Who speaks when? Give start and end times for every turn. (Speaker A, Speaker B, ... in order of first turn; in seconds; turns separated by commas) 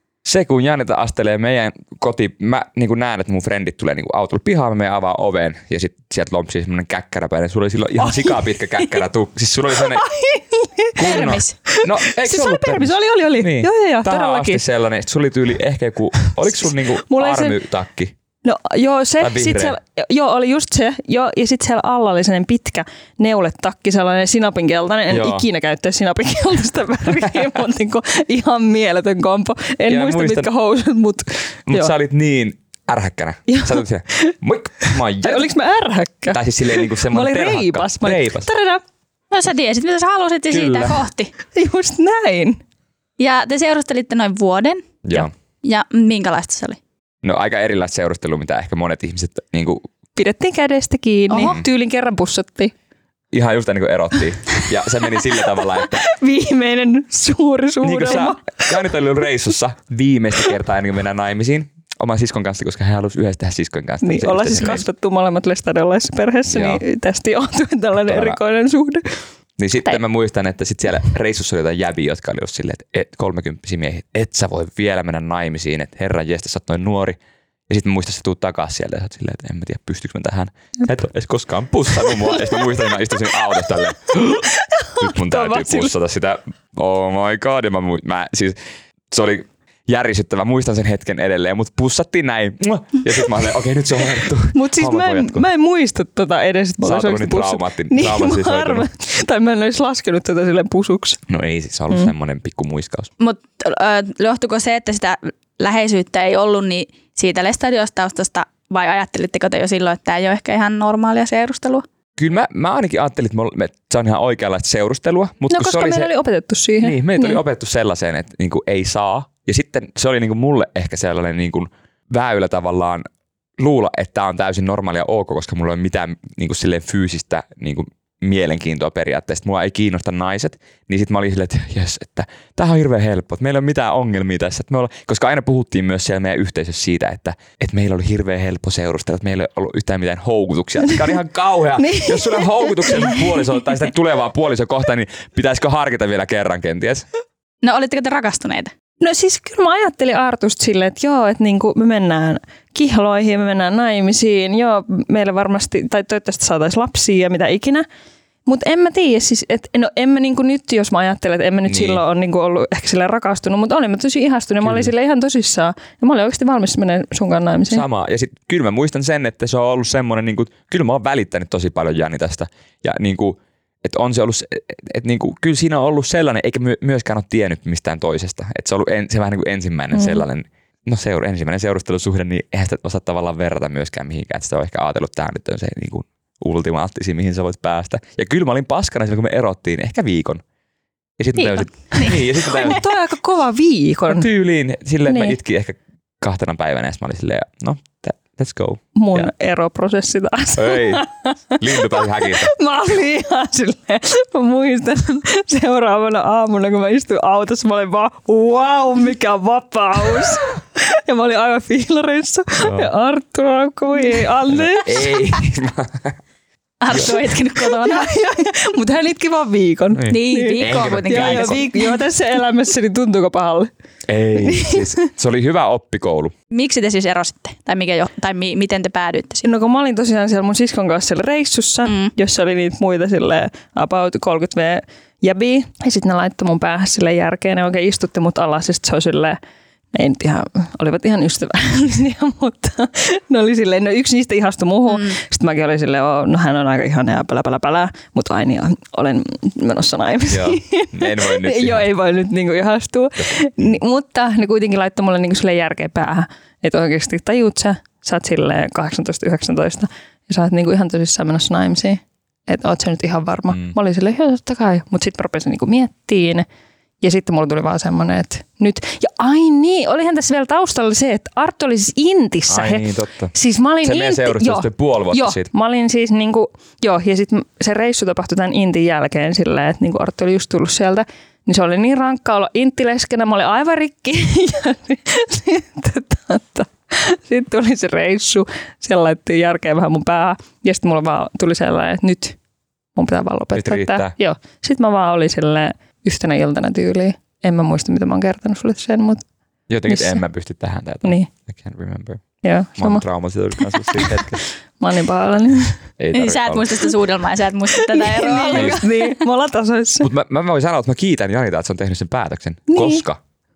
Speaker A: 0.2-10.1, Speaker B: 8.0-8.3, Speaker B: 9.8-14.6, Speaker A: 11.0-18.1, Speaker C: 11.0-11.5, Speaker B: 16.2-17.6, Speaker B: 18.4-31.9, Speaker A: 19.2-19.8, Speaker A: 25.1-25.4, Speaker A: 29.9-30.5, Speaker A: 31.7-35.5, Speaker B: 33.5-38.8, Speaker A: 36.3-38.5, Speaker C: 39.3-41.3, Speaker A: 40.5-41.0, Speaker B: 41.5-42.6, Speaker C: 43.2-45.0, Speaker A: 45.0-45.3, Speaker C: 45.6-46.8, Speaker A: 47.2-49.8, Speaker B: 50.1-52.7, Speaker C: 51.3-51.6, Speaker A: 51.4-51.6, Speaker A: 53.3-56.1, Speaker B: 55.6-58.9, Speaker A: 57.8-64.9, Speaker B: 64.0-69.2, Speaker A: 66.5-66.8, Speaker A: 68.1-68.4, Speaker A: 69.6-84.5, Speaker B: 82.1-82.4, Speaker B: 84.1-85.9, Speaker A: 85.0-88.6, Speaker A: 89.1-95.5, Speaker B: 94.5-101.2, Speaker A: 96.8-98.9, Speaker A: 101.3-103.1, Speaker C: 103.2-111.9, Speaker A: 112.2-116.1, Speaker B: 115.5-117.4, Speaker A: 116.8-123.1, Speaker A: 123.6-147.1, Speaker B: 141.8-143.4, Speaker C: 147.6-148.7, Speaker B: 149.0-157.9, Speaker B: 158.5-167.8, Speaker A: 161.7-162.0, Speaker A: 164.6-164.9, Speaker A: 167.7-190.4, Speaker A: 191.2-192.9, Speaker C: 191.4-192.2, Speaker B: 192.0-194.3, Speaker A: 194.1-199.3, Speaker B: 195.1-195.4, Speaker B: 198.9-215.3, Speaker A: 200.6-201.1, Speaker A: 201.6-202.5, Speaker A: 212.6-212.9, Speaker A: 214.5-216.2, Speaker C: 216.8-218.2, Speaker B: 217.6-223.7, Speaker A: 219.9-221.6, Speaker C: 220.1-222.0, Speaker A: 224.1-226.3, Speaker B: 224.3-224.9, Speaker C: 226.5-229.4, Speaker B: 229.4-239.4, Speaker C: 231.9-232.1, Speaker B: 239.9-266.5, Speaker C: 244.9-245.2, Speaker A: 250.3-251.9, Speaker A: 263.5-263.8, Speaker B: 267.0-292.4, Speaker A: 272.5-275.5, Speaker B: 293.0-299.2, Speaker A: 293.5-294.1, Speaker A: 299.7-302.2, Speaker B: 299.9-300.2, Speaker B: 301.0-301.3, Speaker B: 302.4-303.0, Speaker A: 302.8-304.4, Speaker B: 303.6-305.8, Speaker A: 306.0-306.9, Speaker C: 306.1-309.2, Speaker B: 307.7-310.1, Speaker A: 308.5-308.8, Speaker A: 310.0-313.2, Speaker B: 312.7-313.0